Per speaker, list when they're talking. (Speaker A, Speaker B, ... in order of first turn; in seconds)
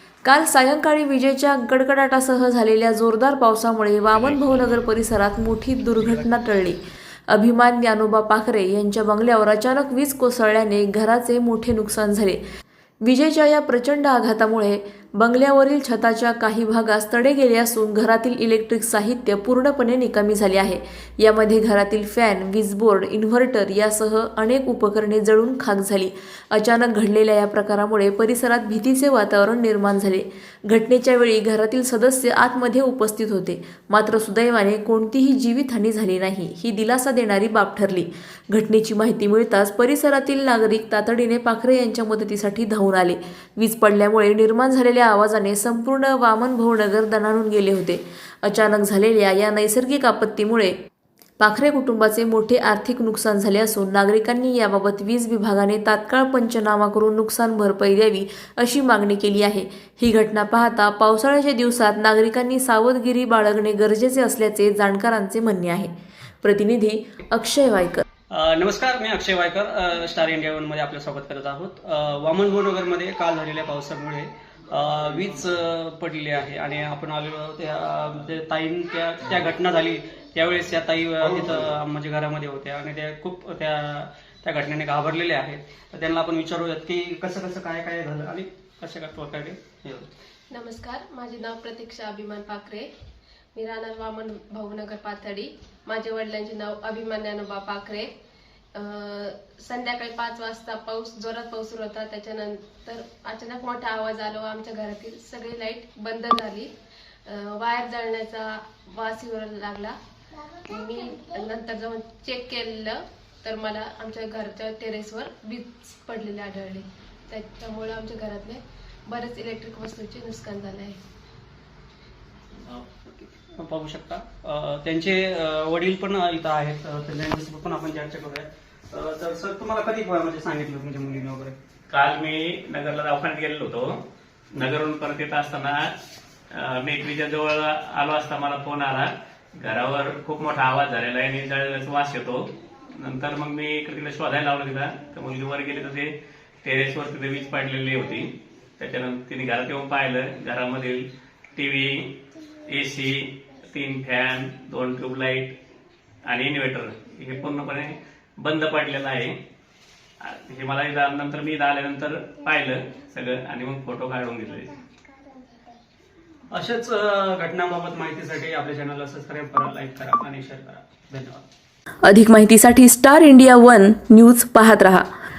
Speaker A: 0.2-6.8, 7.3-12.4, 13.0-50.7, 51.4-68.0, 172.0-175.1
Speaker B: 68.3-90.1, 122.6-131.6, 166.5-171.5
Speaker C: 90.5-92.9, 93.5-98.1, 98.7-106.7, 107.3-110.0, 110.6-121.0
Speaker D: 131.9-134.0, 134.5-135.9, 136.5-155.6, 156.3-159.4, 160.2-164.8